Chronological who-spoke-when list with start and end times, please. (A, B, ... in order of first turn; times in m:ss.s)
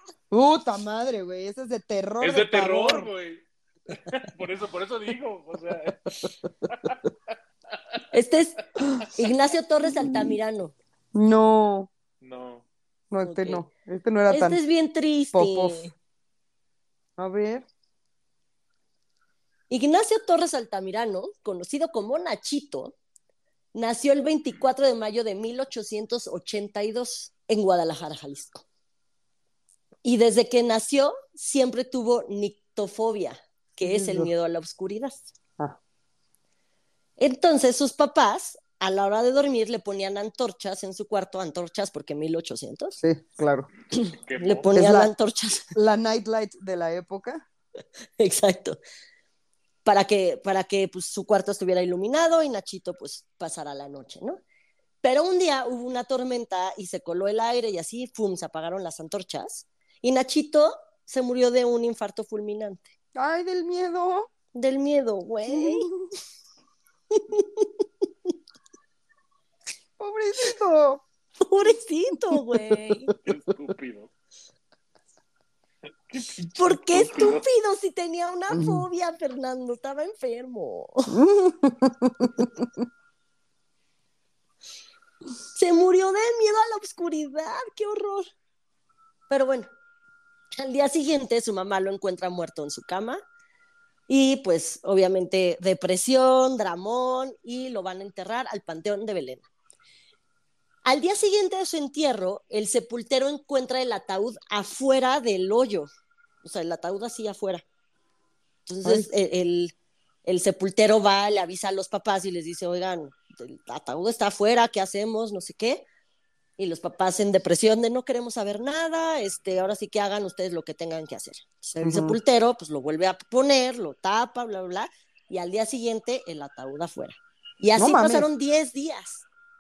0:00.3-0:03.1 A
0:02.2-0:06.1 B
0:06.7-0:07.0 B
0:08.1-0:10.8 C
0:11.1-0:11.9 A
0:12.2-0:12.6 B
0:13.1-0:14.6 A
0:13.2-0:13.6 C
0:14.3-0:15.9 C
0:15.3-0:15.9 A
0:17.2-0:17.7 A
0:19.7-0:23.0 C
0:23.7-0:28.6 C
0:30.0-0:35.3 C
0:33.8-0:34.3 A
0:37.2-0:43.0 C
0:43.0-0:43.7 A
0:43.9-0:45.7 C
0:44.1-0:44.7 B
0:44.7-0:45.1 A
0:45.8-0:47.4 A
0:48.2-0:48.8 C
0:49.8-0:54.4 C
0:55.0-1:02.9 C
1:03.2-1:04.3 A
1:04.5-1:05.9 C
1:05.5-1:06.0 A
1:07.1-1:07.7 C
1:10.0-1:11.0 A
1:11.4-1:13.1 C
1:13.2-1:14.1 B
1:16.1-1:17.4 B
1:16.6-1:21.2 C
1:18.5-1:18.9 A
1:21.1-1:22.7 A
1:25.6-1:28.3 C
1:29.3-1:29.7 C
1:30.6-1:33.2 C
1:34.1-1:39.5 C
1:40.8-1:45.9 C
1:46.4-1:47.6 C
1:48.7-1:49.7 C
1:50.2-1:55.8 C
1:56.6-2:09.3 C
2:01.8-2:02.2 A
2:07.8-2:08.3 A